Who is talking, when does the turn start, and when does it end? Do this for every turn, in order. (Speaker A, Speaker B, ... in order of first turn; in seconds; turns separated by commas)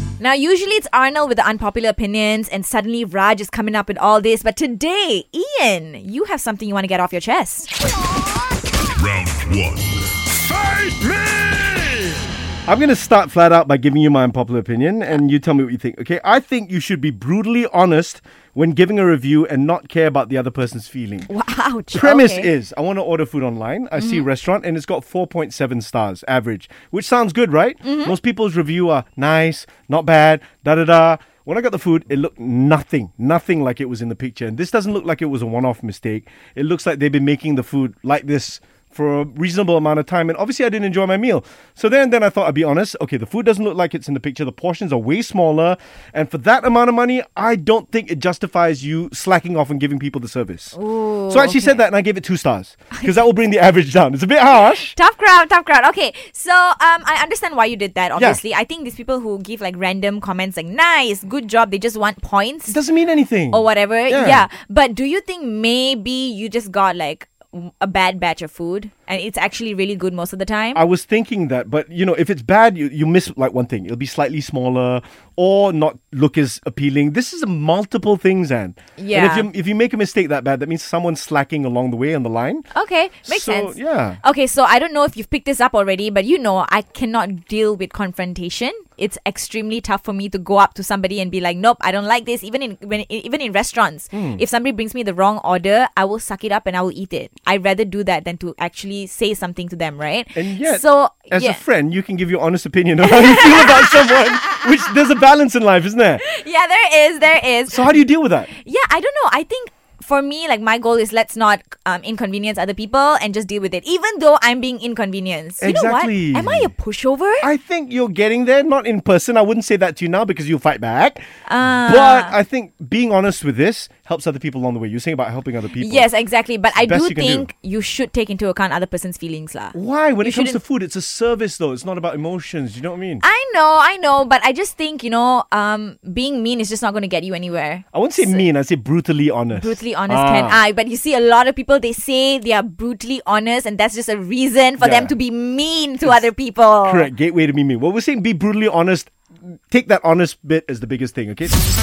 Speaker A: 0.2-7.7, Speaker B: 9.0-10.1, Speaker B: 10.6-12.1, Speaker C: 12.7-21.3, Speaker A: 21.3-22.5, Speaker C: 21.9-50.8, Speaker A: 24.0-24.2, Speaker A: 27.8-28.1, Speaker A: 50.7-51.8, Speaker C: 51.3-55.0, Speaker A: 54.9-62.8, Speaker C: 62.7-64.5, Speaker A: 63.5-70.8, Speaker C: 70.7-82.7, Speaker A: 79.0-79.5, Speaker A: 82.7-101.6, Speaker C: 83.2-84.2, Speaker C: 94.1-94.4, Speaker C: 100.3-106.2, Speaker A: 103.0-104.6, Speaker A: 106.2-117.5, Speaker C: 107.7-108.5, Speaker C: 115.6-116.7, Speaker C: 117.4-126.1, Speaker A: 121.5-122.3, Speaker A: 125.8-130.6, Speaker C: 126.8-127.5, Speaker C: 129.7-133.2, Speaker A: 133.2-138.5, Speaker C: 137.9-140.6, Speaker A: 139.5-147.1, Speaker C: 144.8-145.1, Speaker C: 146.8-149.1, Speaker C: 149.7-151.6